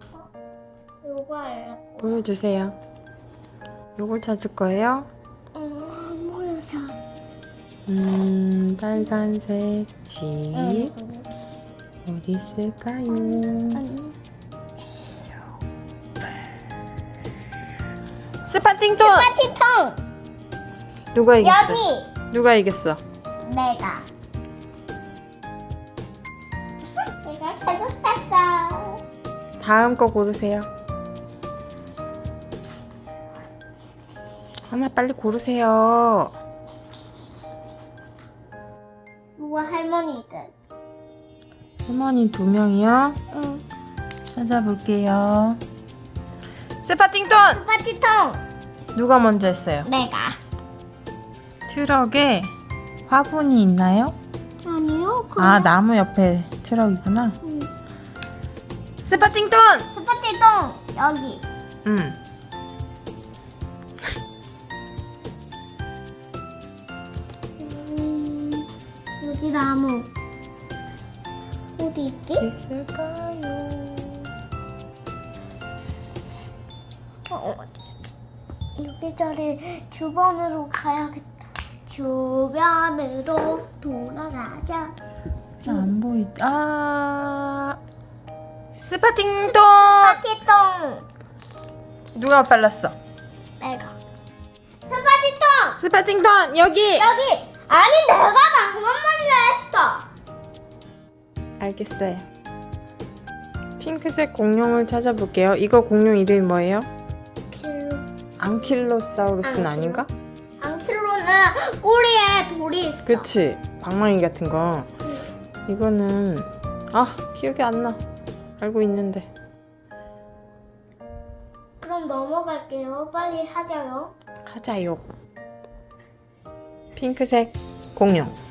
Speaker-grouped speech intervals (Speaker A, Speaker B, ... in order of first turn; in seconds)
Speaker A: 1.0-2.2, 5.5-7.0, 10.5-11.3, 13.2-14.2, 19.0-20.0, 21.4-22.1, 23.4-24.1, 27.0-29.0, 39.4-40.5, 43.3-43.6, 47.5-48.4, 49.9-50.4, 54.6-55.7, 57.4-57.7, 59.9-61.5, 67.6-68.7, 69.2-70.1, 71.8-72.5, 77.3-77.7, 78.8-81.3, 81.9-85.0, 85.7-85.9, 89.8-91.1, 93.6-94.0, 94.9-95.8, 97.0-100.1, 107.5-108.1, 109.4-110.0, 110.6-113.3, 121.8-124.1
Speaker B: 2.0-2.8, 4.0-5.1, 7.9-10.9, 12.1-13.8, 18.5-19.3, 21.1-23.0, 29.6-30.7, 34.7-36.4, 41.9-43.2, 44.3-45.6, 46.8-47.6, 48.9-49.9, 51.7-52.5, 53.1-54.2, 55.4-57.4, 59.0-59.9, 61.9-62.2, 72.4-74.3, 85.7-87.8, 88.8-90.2, 92.2-93.0, 95.8-97.1, 101.6-102.3, 103.8-106.9, 108.4-110.1, 113.1-114.9, 115.7-118.0, 118.6-119.3, 124.5-125.0, 127.0-128.4